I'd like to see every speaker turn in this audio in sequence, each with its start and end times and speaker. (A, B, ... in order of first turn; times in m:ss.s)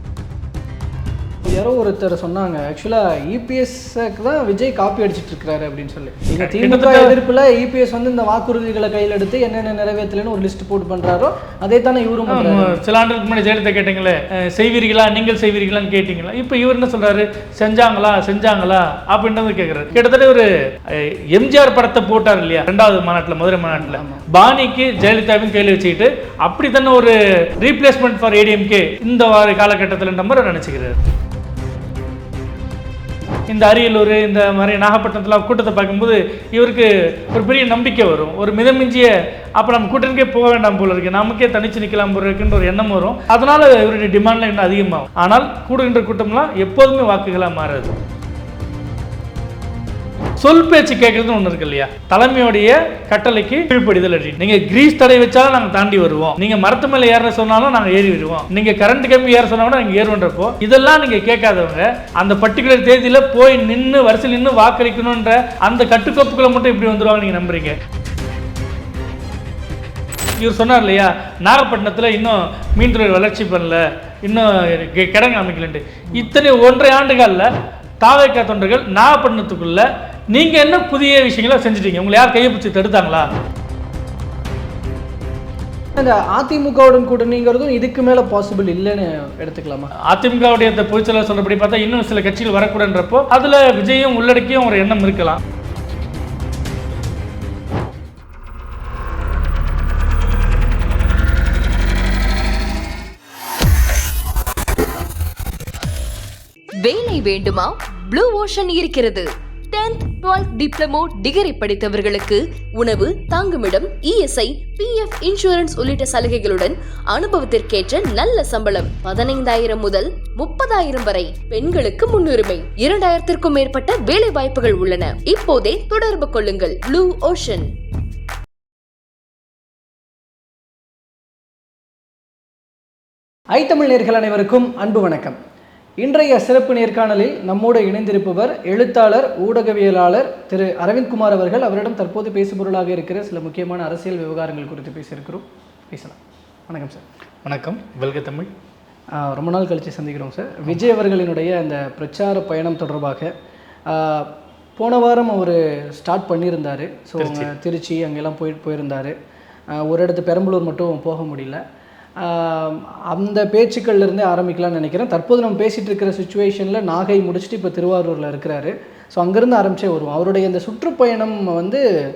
0:01.4-0:12.8 A
0:06.4-0:07.1 B
0:12.3-0:31.0 B
0:23.7-0:24.2 A
0:33.5-0:47.9 B
0:50.4-1:07.8 B
1:10.4-1:17.5 B
1:18.0-1:23.3 B
1:26.0-1:29.9 A
1:30.0-1:35.4 B
1:46.8-2:07.7 C
2:13.5-2:15.4 A
2:16.0-2:27.0 A
2:27.4-2:28.5 B
2:29.1-2:33.3 A
2:33.9-2:39.1 A
2:37.2-2:37.5 B
2:39.7-2:41.6 A
2:42.2-2:51.8 A